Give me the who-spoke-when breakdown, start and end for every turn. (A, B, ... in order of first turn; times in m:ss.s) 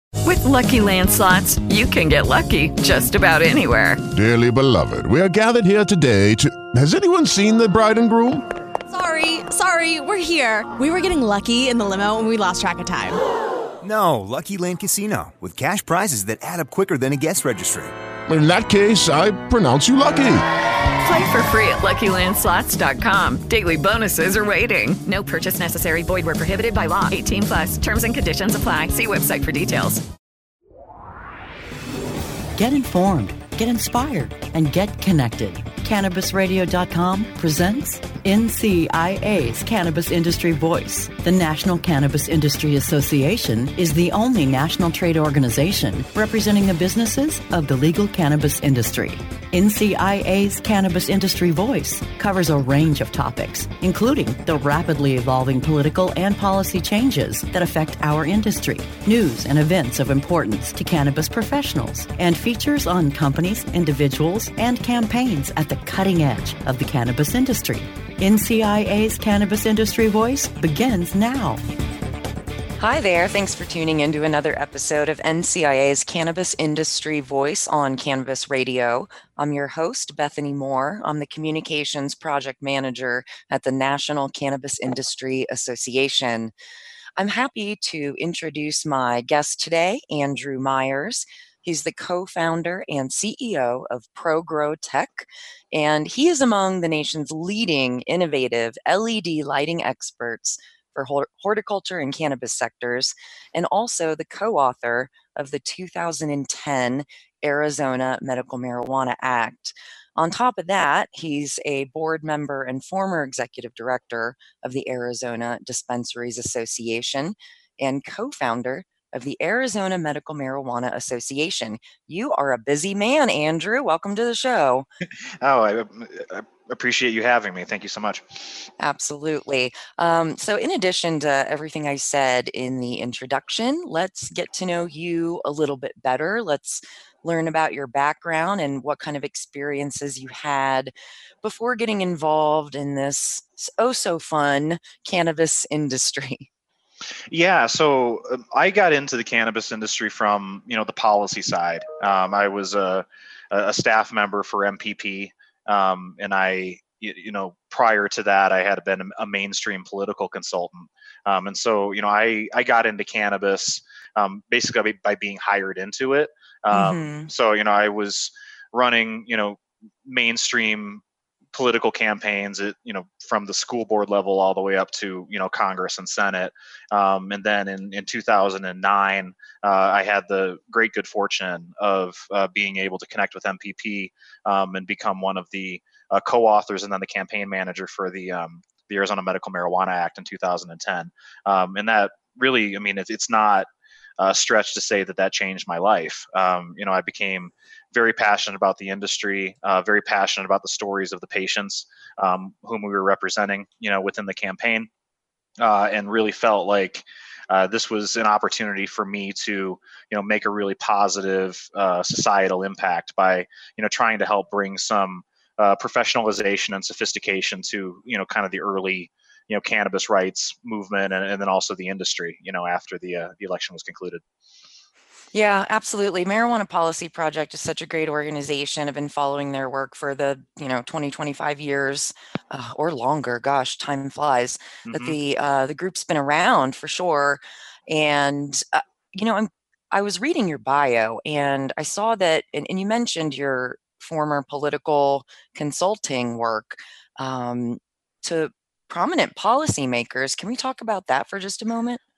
0:00.2-0:04.0 A
0:04.1-0:08.4 B
0:08.9-0:13.2 C
0:13.8-0:17.9 D
0:18.3-0:20.4 B
0:21.0-0:30.0 A
0:32.6-1:11.6 E
1:12.8-1:26.5 F
1:27.2-2:04.9 F
2:05.4-2:08.5 G
2:08.8-2:26.5 F
2:27.3-2:51.0 G
2:46.7-2:47.3 F
2:51.5-3:24.9 G
3:25.6-3:44.2 G
3:45.3-4:12.0 F
3:54.8-3:55.2 G